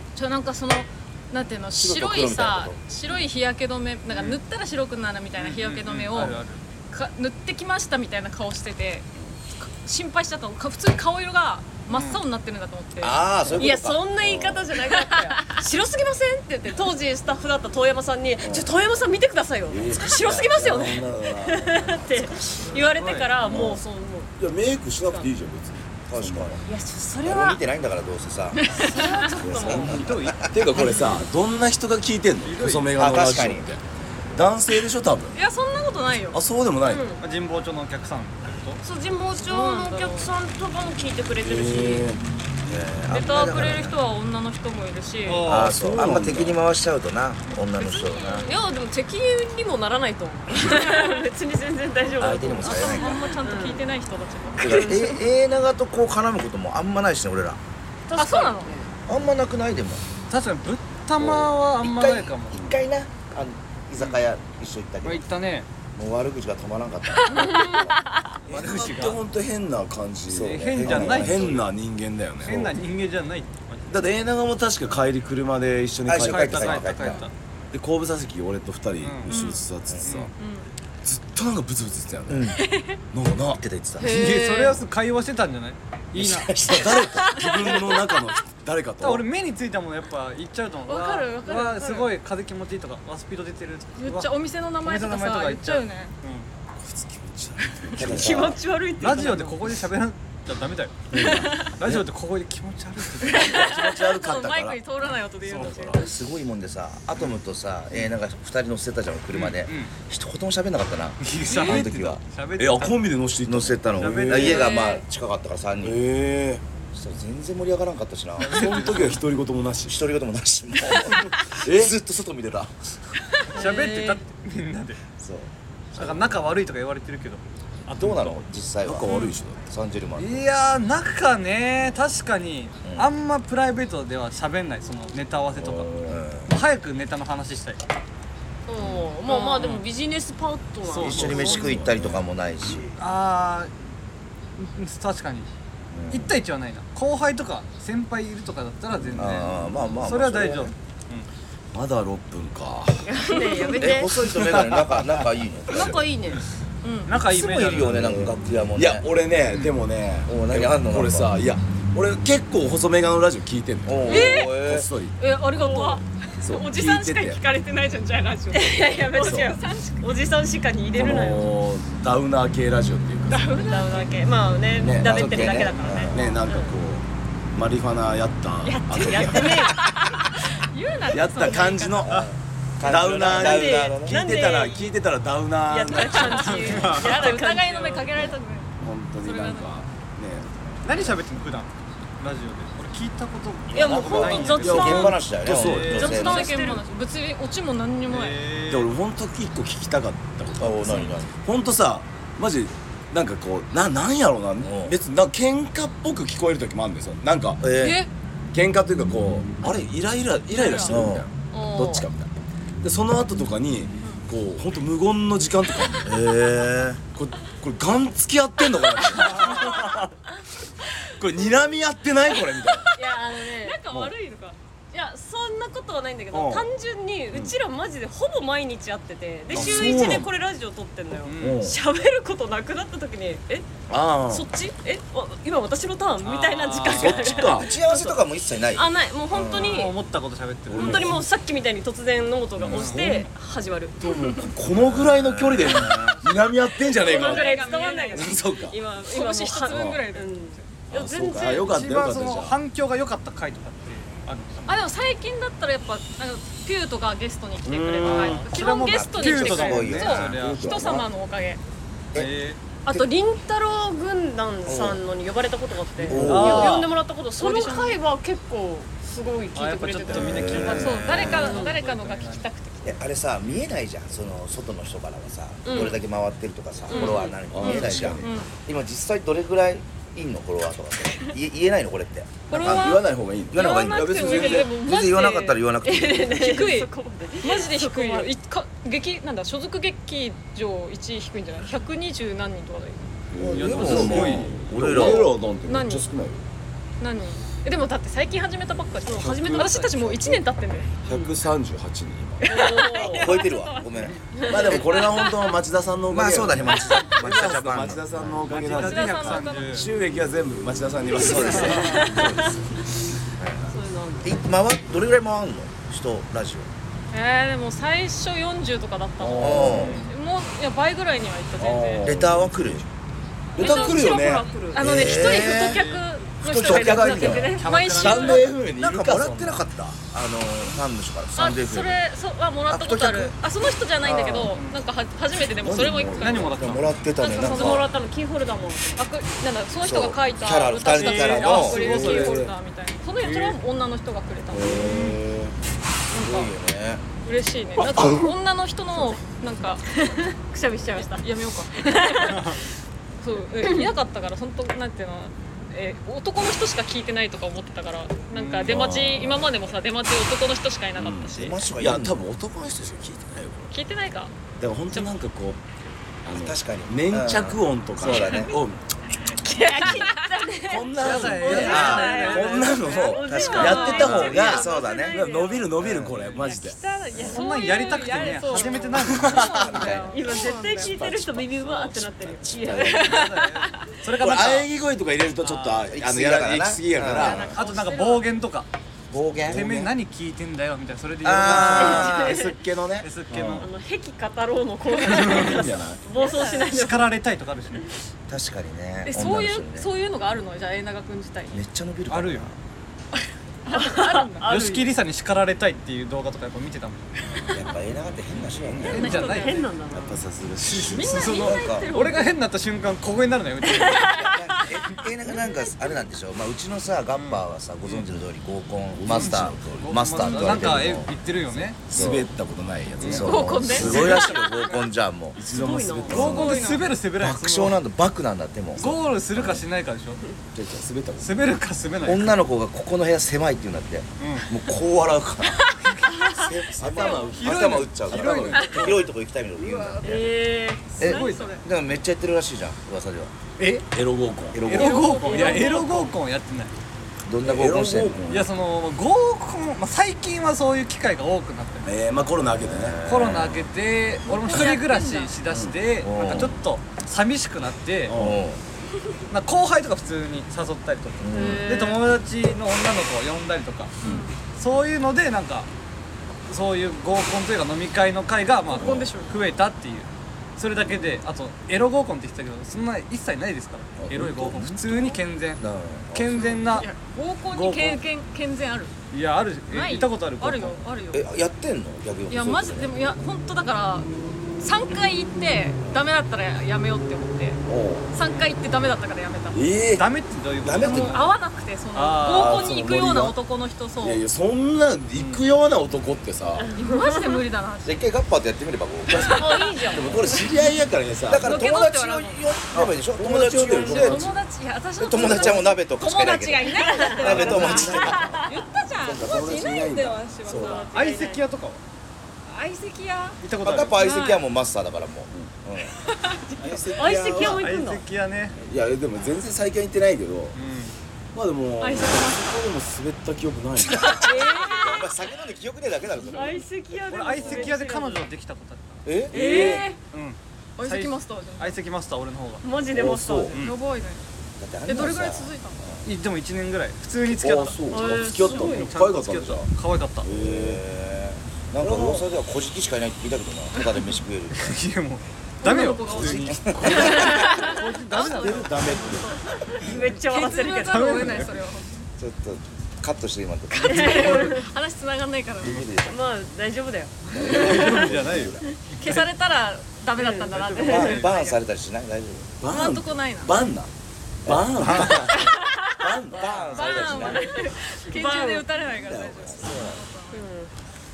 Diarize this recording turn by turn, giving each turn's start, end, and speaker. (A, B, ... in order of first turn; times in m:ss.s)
0:00.2-0:06.4 A
0:01.7-0:02.8 B
0:04.1-0:04.4 C
0:05.4-0:06.6 C
0:06.9-0:13.2 A
0:11.9-0:12.2 C
0:13.0-0:14.0 B
0:13.4-0:14.8 D
0:13.6-0:24.3 E
0:15.0-0:15.6 A
0:18.4-0:18.8 D
0:19.7-0:22.1 D
0:20.1-0:20.8 B
0:22.8-0:23.7 C
0:23.4-0:23.8 D
0:24.4-0:26.6 D
0:26.1-0:26.6 B
0:26.7-0:27.6 E
0:27.2-0:28.9 B
0:28.6-0:29.3 A
0:28.8-0:30.3 E
0:29.4-0:33.8 D
0:29.7-0:30.7 B
0:29.7-0:31.2 C
0:32.4-0:33.0 C
0:32.9-0:33.7 B
0:34.3-0:35.4 D
0:35.4-0:36.4 A
0:36.2-0:37.1 D
0:36.8-0:37.2 E
0:37.2-0:38.8 C
0:38.8-0:42.1 E
0:39.4-0:40.3 A
0:41.4-0:42.2 D
0:42.6-0:44.0 B
0:43.1-0:45.5 A
0:45.3-0:45.8 C
0:45.4-0:46.6 D
0:45.4-0:48.5 B
0:47.7-0:48.6 A
0:48.4-0:53.8 E
0:50.5-0:51.3 A
0:52.2-0:53.3 B
0:52.2-0:55.0 A
0:54.6-0:55.2 E
0:54.6-0:57.6 B
0:58.1-0:58.9 E
0:58.2-0:58.7 A
0:59.1-1:00.0 B
1:00.3-1:02.7 C
1:01.2-1:05.2 B
1:04.0-1:04.2 C
1:05.0-1:05.7 C
1:05.9-1:08.8 B
1:07.3-1:08.2 A
1:08.5-1:09.2 C
1:08.5-1:12.8 D
1:10.3-1:11.5 B
1:10.4-1:11.7 C
1:12.4-1:14.0 C
1:13.9-1:16.9 D
1:16.1-1:17.2 B
1:16.2-1:17.3 C
1:17.7-1:20.3 D
1:19.0-1:19.4 C
1:19.3-1:19.7 A
1:20.0-1:20.3 C
1:20.4-1:20.7 A
1:21.0-1:22.6 D
1:22.3-1:22.6 B
1:22.6-1:23.0 A
1:23.1-1:23.6 D
1:23.6-1:24.1 B
1:24.0-1:24.8 A
1:24.0-1:26.5 C
1:26.2-1:27.8 B
1:26.7-1:29.2 D
1:27.2-1:28.3 A
1:29.0-1:34.3 C
1:30.9-1:32.1 A
1:34.0-1:36.1 A
1:34.8-1:36.5 C
1:36.8-1:38.6 D
1:38.0-1:38.6 B
1:38.1-1:39.6 E
1:39.0-1:41.0 C
1:41.1-1:42.1 D
1:41.2-1:41.7 A
1:41.8-1:43.6 C
1:43.2-1:46.1 A
1:43.3-1:46.1 D
1:45.5-1:45.7 C
1:46.0-1:52.2 B
1:49.3-1:49.9 C
1:51.2-1:53.0 C
1:52.6-1:54.7 D
1:53.4-1:56.0 B
1:54.0-1:54.7 C
1:54.6-1:55.0 A
1:55.8-1:56.6 D
1:57.0-1:59.0 B
1:58.4-1:59.2 C
1:58.5-2:00.0 D
1:59.9-2:02.7 B
2:01.6-2:02.0 D
2:03.5-2:05.0 C
2:03.5-2:04.2 E
2:05.2-2:06.4 B
2:06.0-2:08.3 C
2:08.0-2:08.3 D
2:08.0-2:09.1 B
2:08.8-2:09.6 D
2:09.1-2:09.3 A
2:09.7-2:10.8 B
2:10.2-2:16.0 C
2:12.8-2:13.1 B
2:15.5-2:16.2 D
2:16.1-2:16.5 B
2:16.5-2:17.8 C
2:18.7-2:21.6 E
2:18.8-2:19.1 B
2:19.3-2:19.6 A
2:19.3-2:19.8 C
2:20.8-2:21.9 C
2:21.0-2:23.0 B
2:21.4-2:22.2 D
2:23.0-2:23.7 C
2:24.6-2:25.5 C
2:25.9-2:26.3 B
2:26.1-2:31.3 C
2:29.1-2:30.7 B
2:31.7-2:33.1 D
2:33.1-2:34.3 E
2:33.3-2:33.9 A
2:33.8-2:36.1 B
2:34.3-2:35.2 C
2:35.7-2:36.4 E
2:36.8-2:37.1 A
2:37.1-2:38.0 C
2:37.1-2:39.0 B
2:37.8-2:45.2 D
2:39.5-2:39.8 C
2:40.3-2:41.3 B
2:43.9-2:44.9 B
2:44.1-2:44.6 A
2:45.2-2:50.1 A
2:45.5-2:46.0 E
2:46.4-2:47.4 D
2:48.1-2:51.5 E
2:49.1-2:49.6 D
2:50.9-2:53.5 D
2:53.3-2:54.1 A
2:53.5-2:56.7 E
2:54.8-2:56.2 B
2:54.8-2:59.8 D
2:58.6-2:59.9 E
2:59.6-3:02.1 A
3:01.1-3:02.3 D
3:02.0-3:04.2 B
3:02.8-3:06.9 D
3:03.2-3:04.9 E
3:05.7-3:08.2 E
3:06.2-3:07.2 C
3:06.8-3:09.8 A
3:08.8-3:11.2 D
3:10.8-3:11.7 C
3:12.2-3:16.4 C
3:13.7-3:15.3 E
3:13.7-3:16.5 B
3:14.5-3:16.2 D
3:15.9-3:16.8 E
3:16.0-3:18.4 A
3:18.1-3:18.9 C
3:18.7-3:27.7 D
3:20.6-3:21.3 B
3:24.6-3:25.0 B
3:27.6-3:28.0 B
3:27.8-3:28.1 A
3:28.5-3:36.3 D
3:30.5-3:31.0 A
3:30.8-3:31.3 B
3:31.5-3:32.1 E
3:36.0-3:37.0 B
3:37.2-3:40.1 D
3:39.3-3:40.0 A
3:41.2-3:42.9 D
3:42.7-3:44.6 A
3:43.0-3:43.9 E
3:44.9-3:53.8 E
3:46.3-3:46.7 D
3:49.5-3:50.2 C
3:49.5-3:50.3 D
3:51.2-3:51.6 C
3:51.4-3:51.8 D
3:53.9-3:54.5 D
3:54.3-4:00.0 E
3:56.2-3:57.6 C
3:56.8-3:57.7 D
3:57.5-3:59.9 B
3:59.5-4:01.2 C
4:00.7-4:01.3 D
4:00.7-4:04.5 E
4:02.6-4:03.1 C
4:02.7-4:03.3 D
4:04.0-4:07.5 D
4:04.8-4:06.2 B
4:06.9-4:11.8 E
4:07.0-4:08.4 A
4:08.1-4:08.8 D
4:09.0-4:10.7 A
4:09.7-4:10.0 D
4:10.9-4:12.6 D
4:11.6-4:14.8 C
4:14.7-4:21.6 A
4:17.6-4:18.5 D
4:18.0-4:20.6 C
4:18.5-4:20.4 B
4:20.1-4:21.1 D
4:22.2-4:22.6 C
4:22.9-4:31.8 E
4:24.7-4:25.0 B
4:26.0-4:26.7 D
4:26.1-4:26.9 B
4:26.2-4:26.9 C
4:27.4-4:28.0 A
4:29.6-4:32.5 C
4:30.1-4:31.6 B
4:30.7-4:33.0 A
4:32.8-4:46.5 B
4:35.6-4:36.0 E
4:36.9-4:37.9 E
4:36.9-4:38.5 A
4:37.4-4:38.3 D
4:42.5-4:45.7 A
4:42.5-4:44.7 D
4:45.8-4:48.3 E
4:46.2-4:53.1 A
4:53.3-4:56.4 D
4:53.4-4:55.4 B
4:53.5-4:54.6 C
4:54.9-4:56.1 A
4:57.0-5:01.0 A
4:59.0-5:00.1 E
4:59.2-5:00.4 D
5:01.0-5:02.4 D
5:02.4-5:03.7 A
5:02.4-5:03.6 E
5:02.9-5:04.2 B
5:04.3-5:05.4 E
5:04.4-5:12.6 D
5:06.1-5:08.4 B
5:08.5-5:09.9 C
5:08.7-5:09.9 A
5:11.1-5:12.6 B
5:11.2-5:12.4 E
5:11.6-5:12.0 C
5:13.4-5:13.7 B
5:13.7-5:14.4 E
5:14.2-5:16.7 B
5:17.1-5:22.1 A
5:19.2-5:20.0 D
5:19.4-5:20.0 B
5:19.8-5:20.0 C
5:21.6-5:22.9 D
5:22.0-5:22.8 B
5:23.6-5:24.5 D
5:23.6-5:28.5 A
5:23.6-5:25.2 E
5:24.8-5:25.8 B
5:25.4-5:26.1 C
5:26.4-5:29.9 D
5:26.7-5:28.5 C
5:28.0-5:32.0 B
5:31.4-5:36.6 A
5:32.7-5:33.3 B
5:34.0-5:34.6 B
5:34.5-5:34.8 C
5:35.4-5:36.8 D
5:36.2-5:37.0 C
5:36.6-5:37.9 B
5:37.2-5:37.9 A
5:37.3-5:39.1 E
5:39.0-5:45.2 A
5:39.8-5:42.2 B
5:40.8-5:42.5 C
5:41.6-5:42.5 D
5:43.2-5:43.6 C
5:44.5-5:45.6 D
5:46.1-5:46.5 A
5:46.1-5:47.0 B
5:47.2-5:50.3 A
5:50.0-5:52.4 E
5:51.0-5:52.6 A
5:53.2-6:01.6 A
5:53.6-5:53.9 E
5:58.3-5:58.8 C
5:58.6-5:59.7 D
6:01.0-6:03.7 D
6:01.3-6:02.2 B
6:03.7-6:04.3 A
6:04.6-6:05.6 D
6:06.2-6:08.9 D
6:06.3-6:08.6 B
6:09.4-6:10.8 A
6:09.5-6:15.7 E
6:10.6-6:17.3 D
6:11.0-6:12.5 C
6:11.4-6:15.7 A
6:11.6-6:12.4 B
6:13.1-6:16.3 B
6:16.1-6:16.4 C
6:16.5-6:21.0 A
6:16.6-6:17.3 E
6:17.2-6:20.2 C
6:18.9-6:19.8 D
6:19.2-6:20.4 B
6:20.1-6:23.2 E
6:20.7-6:22.3 D
6:22.5-6:23.1 B
6:22.7-6:23.8 A
6:22.9-6:24.7 C
6:24.1-6:27.6 D
6:25.4-6:25.9 C
6:25.9-6:27.5 B
6:27.2-6:28.3 A
6:27.2-6:28.7 C
6:29.1-6:29.8 B
6:29.4-6:32.4 C
6:29.5-6:29.9 D
6:31.2-6:32.4 B
6:31.3-6:33.7 D
6:31.7-6:32.6 E
6:33.0-6:33.7 C
6:33.6-6:37.1 E
6:35.1-6:35.7 C
6:35.1-6:36.0 D
6:36.1-6:36.7 A
6:36.4-6:37.9 C
6:38.3-6:39.9 B
6:39.0-6:41.6 A
6:41.5-6:42.6 B
6:42.1-6:42.5 C
6:43.7-6:44.5 A
6:43.7-6:44.9 E
6:44.4-6:47.1 C
6:47.5-6:49.4 B
6:48.3-6:49.7 C
6:48.9-6:50.2 E
6:49.0-6:49.6 A
6:49.9-6:51.4 D
6:50.7-6:54.2 C
6:50.8-6:52.3 A
6:51.3-6:52.0 B
6:54.0-7:02.3 B
6:55.3-6:55.8 E
6:57.1-6:58.1 C
6:58.9-6:59.9 D
6:59.1-7:02.1 C
7:00.4-7:00.7 D
7:01.9-7:04.4 D
7:03.0-7:04.2 C
7:03.0-7:05.4 B
7:03.2-7:04.8 A
7:05.4-7:06.6 D
7:05.5-7:06.4 E
7:06.1-7:09.6 B
7:06.1-7:07.8 C
7:06.2-7:06.9 A
7:08.8-7:10.2 C
7:10.5-7:11.4 D
7:11.2-7:12.4 C
7:12.0-7:15.7 B
7:14.2-7:14.5 C
7:15.8-7:16.5 C
7:16.1-7:16.4 A
7:16.3-7:19.0 D
7:16.8-7:20.3 B
7:17.0-7:17.4 A
7:17.2-7:19.0 C
7:19.6-7:20.2 A
7:20.0-7:21.6 E
7:21.0-7:23.3 B
7:21.0-7:21.6 C
7:23.6-7:23.9 C
7:23.9-7:24.7 D
7:24.5-7:25.5 B
7:24.7-7:26.7 C
7:24.7-7:26.1 A
7:27.3-7:28.2 B
7:27.4-7:28.5 D
7:28.3-7:31.9 C
7:31.8-7:33.0 D
7:32.5-7:33.7 B
7:33.0-7:38.2 C
7:34.3-7:35.3 A
7:35.5-7:35.8 D
7:36.0-7:36.6 B
7:38.1-7:38.4 D
7:38.1-7:38.6 B
7:39.3-7:45.7 C
7:41.2-7:41.7 B
7:41.3-7:42.1 A
7:44.0-7:44.4 A
7:46.5-7:56.9 C
7:48.7-7:49.4 A
7:48.8-7:49.0 D
7:54.0-7:54.4 D
7:54.2-7:54.8 B
7:55.6-7:56.6 B
7:56.3-7:58.9 A
7:57.5-7:58.0 C
7:59.1-8:00.8 C
7:59.7-8:01.2 A
8:01.1-8:03.0 B
8:02.3-8:09.6 A
8:07.7-8:08.1 D
8:09.5-8:10.1 D
8:10.0-8:11.3 C
8:10.6-8:11.2 D
8:10.8-8:14.2 A
8:12.0-8:12.8 C
8:12.2-8:13.4 D
8:14.0-8:16.7 D
8:15.2-8:15.4 C
8:16.6-8:17.4 E
8:16.8-8:18.0 A
8:17.8-8:20.2 B
8:19.1-8:21.6 D
8:19.3-8:20.5 E
8:21.3-8:24.3 B
8:21.4-8:22.7 A
8:22.7-8:24.4 D
8:23.8-8:31.4 A
8:25.0-8:28.4 B
8:25.1-8:25.7 D
8:26.8-8:28.2 E
8:27.2-8:28.4 D
8:29.0-8:30.9 D
8:30.5-8:31.1 E
8:30.9-8:31.8 C
8:32.5-8:33.4 A
8:33.4-8:34.0 C
8:33.6-8:36.0 B
8:34.0-8:34.4 A
8:36.0-8:36.9 A
8:36.6-8:37.8 D
8:37.0-8:38.0 E
8:37.3-8:38.6 C
8:38.6-8:40.6 D
8:40.5-8:41.0 C
8:41.3-8:44.3 D
8:41.8-8:42.4 A
8:43.9-8:46.7 B
8:44.2-8:45.1 A
8:44.2-8:45.0 E
8:46.2-8:48.2 E
8:47.1-8:49.1 C
8:47.4-8:47.7 A
8:49.0-8:49.8 B
8:49.3-8:49.9 D
8:49.3-8:50.0 E
8:50.1-8:52.6 C
8:50.8-8:51.8 A
8:52.6-8:53.6 E
8:52.9-8:53.6 D
8:53.5-8:54.2 A
8:54.6-8:56.1 B
8:54.9-8:55.8 A
8:56.0-9:00.3 C
8:57.3-8:59.7 D
8:57.9-8:58.9 E
9:00.2-9:00.8 D
9:00.3-9:04.8 B
9:01.8-9:02.3 D
9:04.5-9:08.8 C
9:05.6-9:12.0 A
9:06.1-9:07.6 B
9:08.2-9:09.4 D
9:09.7-9:11.4 E
9:10.9-9:11.5 C
9:12.2-9:14.4 B
9:13.7-9:15.8 A
9:13.8-9:14.6 E
9:15.6-9:16.2 B
9:16.1-9:18.1 E
9:17.3-9:18.5 B
9:17.4-9:18.7 D
9:17.4-9:19.3 C
9:18.9-9:21.6 A
9:20.2-9:21.3 E
9:20.5-9:21.4 C
9:20.8-9:22.6 B
9:22.6-9:23.9 D
9:22.7-9:23.6 A
9:24.4-9:25.3 B
9:24.4-9:26.7 D
9:24.8-9:25.2 C
9:25.4-9:25.9 A
9:26.3-9:27.5 B
9:26.5-9:27.3 C
9:26.7-9:30.5 A
9:27.1-9:28.7 E
9:28.9-9:30.0 D
9:29.5-9:30.0 B
9:30.3-9:30.7 E